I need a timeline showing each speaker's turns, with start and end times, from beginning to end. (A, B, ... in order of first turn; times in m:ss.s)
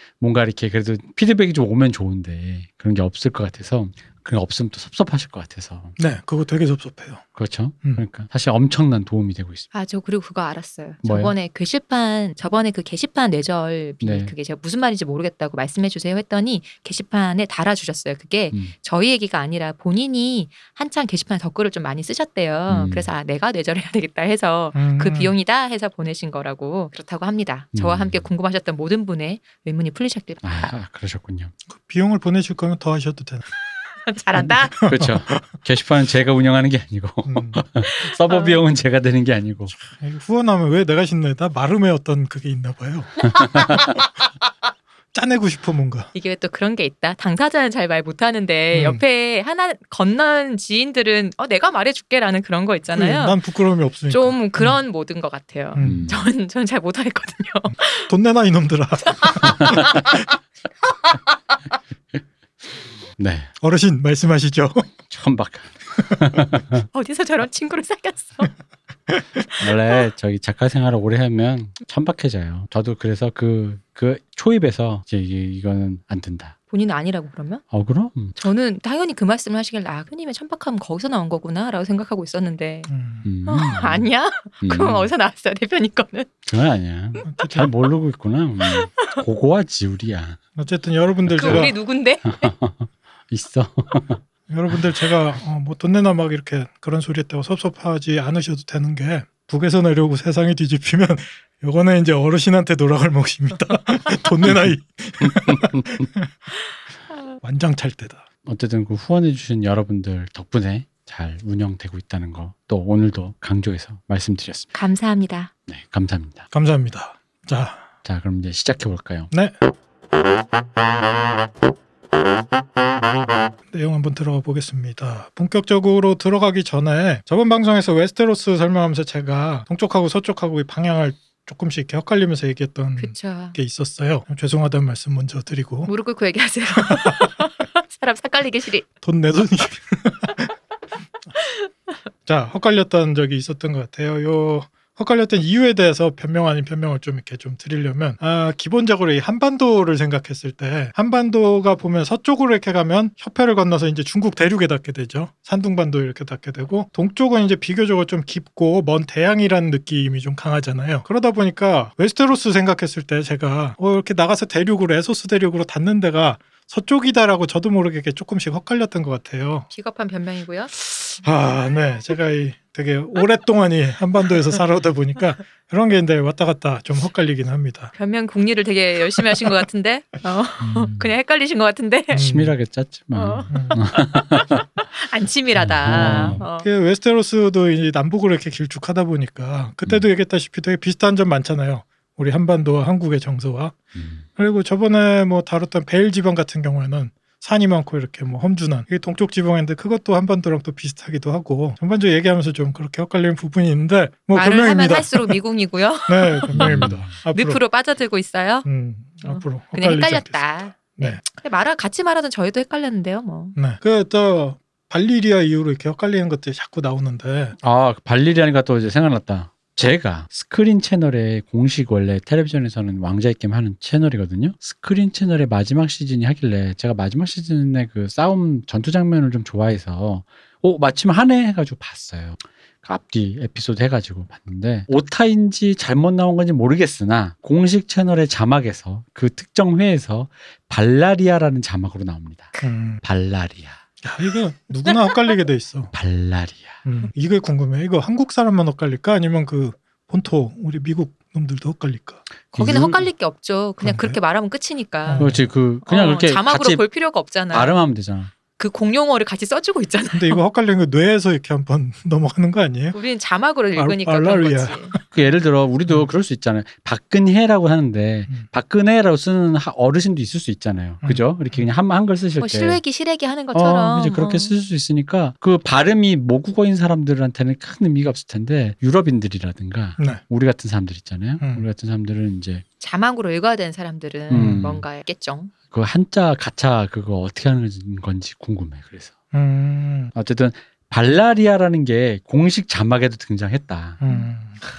0:00.2-0:06.0 A
0:06.0-0:07.2 B
0:07.3-0:09.7 A
0:09.7-0:30.6 C
0:11.0-0:11.3 A
0:14.0-0:14.3 A
0:22.7-0:23.1 A
0:24.7-0:25.3 B
0:27.7-0:28.2 A
0:30.4-0:31.5 A
0:31.7-0:33.4 B
0:34.0-0:34.8 C
0:34.8-0:35.4 B
0:34.8-0:39.7 A
0:37.3-0:37.6 B
0:37.8-0:38.6 C
0:39.8-0:43.7 B
0:45.1-0:46.1 B
0:46.1-0:53.4 C
0:48.7-0:49.0 B
0:52.9-0:54.8 B
0:54.1-0:58.1 C
0:55.7-0:56.1 B
0:55.8-0:56.2 A
0:58.1-1:00.2 B
0:59.1-0:59.5 C
1:03.2-1:03.5 A
1:03.6-1:04.9 B
1:05.1-1:06.8 A
1:06.9-1:08.5 C
1:09.5-1:09.9 C
1:09.6-1:16.5 A
1:16.7-1:17.6 C
1:17.7-1:18.4 A
1:18.4-1:22.9 C
1:22.9-1:23.3 B
1:23.2-1:24.1 A
1:23.4-1:26.4 C
1:24.6-1:25.1 A
1:26.5-1:30.4 A
1:27.2-1:27.7 B
1:28.7-1:29.2 C
1:30.6-1:31.7 B
1:31.3-1:32.5 C
1:31.3-1:31.7 A
1:32.2-1:34.2 A
1:34.5-1:46.3 B
1:45.3-1:46.0 A
1:47.4-1:48.2 B
1:48.4-1:54.7 A
1:54.7-1:55.5 C
1:55.7-1:56.4 A
1:56.5-1:57.9 B
1:58.0-1:59.3 A
1:59.3-1:59.6 B
2:03.7-2:15.9 B
2:13.0-2:13.6 C
2:15.8-2:18.9 C
2:16.8-2:17.3 B
2:19.0-2:20.5 B
2:21.4-2:21.7 C
2:22.2-2:49.7 B
2:49.7-2:50.7 C
2:50.8-2:57.9 B
2:57.9-3:02.2 C
2:59.2-2:59.5 B
3:00.6-3:01.1 A
3:02.1-3:02.5 B
3:02.1-3:04.6 A
3:03.1-3:06.7 C
3:03.5-3:03.8 B
3:05.6-3:06.4 A
3:05.9-3:13.8 B
3:13.9-3:14.2 A
3:14.4-3:25.4 B
3:24.3-3:28.6 C
3:26.1-3:27.6 B
3:26.5-3:27.1 A
3:28.6-3:31.2 B
3:29.2-3:33.6 C
3:33.6-3:37.6 B
3:37.6-4:03.8 A
4:02.6-4:03.0 B
4:04.0-4:05.9 B
4:04.8-4:05.1 C
4:05.9-4:06.8 A
4:06.8-4:12.2 B
4:12.5-4:13.0 A
4:12.5-4:15.3 C
4:13.8-4:14.2 B
4:15.0-4:15.5 B
4:15.2-4:16.8 A
4:15.8-4:17.7 C
4:17.5-4:18.3 A
4:18.6-4:20.4 C
4:20.1-4:23.0 B
4:22.9-4:25.0 C
4:23.7-4:25.2 B
4:25.1-4:32.8 A
4:31.0-4:31.7 B
4:32.4-4:34.5 C
4:33.5-4:42.6 A
4:41.4-4:41.6 B
4:42.8-4:45.5 C
4:44.3-4:44.8 A
4:44.3-4:44.7 B
4:45.7-4:49.1 A
4:49.3-4:50.1 B
4:50.1-4:54.0 A
4:54.0-4:54.6 B
4:54.0-4:54.3 C